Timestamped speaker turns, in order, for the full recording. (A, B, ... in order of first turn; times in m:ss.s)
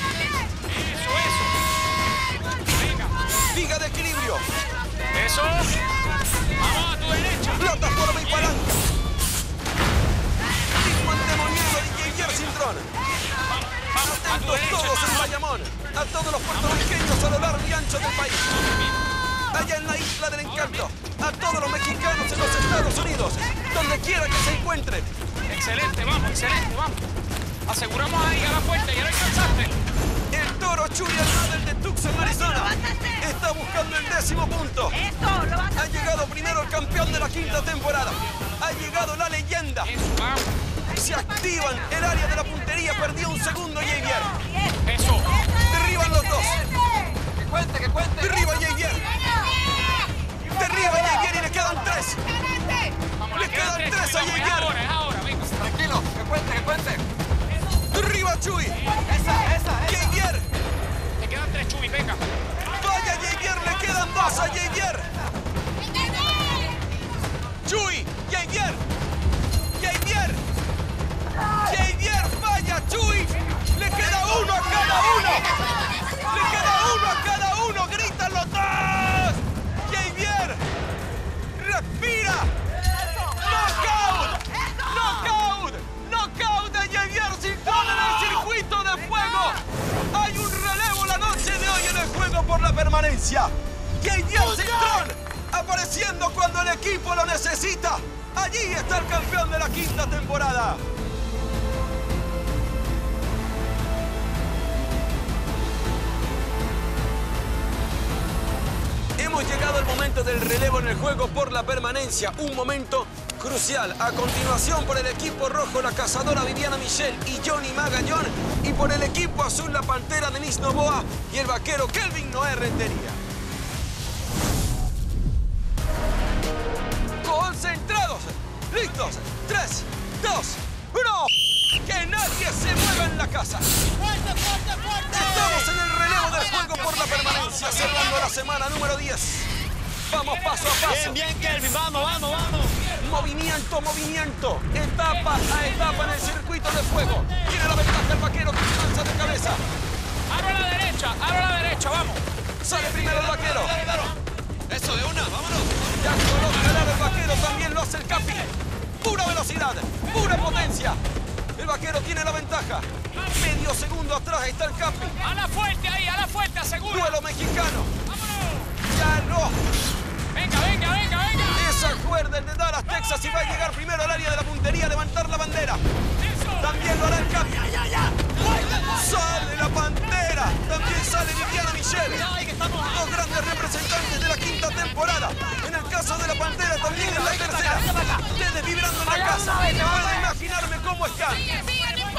0:00.7-0:01.6 A
0:02.8-0:03.1 A
0:03.5-0:04.5 B
0:05.1-0:05.7 A
0:06.6-0:07.5 A
0:07.5-0:08.7 B
0:10.7-0:12.9 B
0:13.9-0:18.7 B
0:19.5-0:25.1 B
0:25.5-0:27.1 A
0:27.7-0:29.7 A
0:30.3-0:40.0 B
0:40.0-0:40.5 A
0:40.9-0:44.6 B
0:44.8-0:45.3 A
0:45.5-0:46.7 B
0:47.2-0:48.1 C
0:48.0-0:49.2 B
0:50.4-0:52.3 B
0:53.3-0:54.8 B
0:53.6-0:55.7 A
0:55.6-0:57.0 C
0:57.8-0:59.0 B
0:59.3-0:59.6 C
0:59.7-1:00.5 B
1:01.2-1:02.2 A
1:02.7-1:05.1 B
1:07.6-1:08.8 B
1:09.8-1:10.4 B
1:11.5-1:15.6 B
1:16.1-1:20.6 B
1:21.6-1:22.5 B
1:23.2-1:40.8 B
1:49.2-2:03.2 B
2:07.2-2:13.7 B
2:14.9-2:19.5 B
2:20.1-2:21.3 B
2:21.3-2:22.8 C
2:22.9-2:29.6 B
2:30.3-2:32.2 A
2:32.6-2:34.0 B
2:34.7-2:35.8 C
2:35.8-2:41.0 B
2:41.6-2:45.3 B
2:45.2-2:46.9 A
2:46.9-2:47.9 B
2:48.3-2:48.6 A
2:48.8-2:49.6 B
2:50.3-2:51.5 A
2:51.5-2:55.8 B
2:56.4-3:11.8 B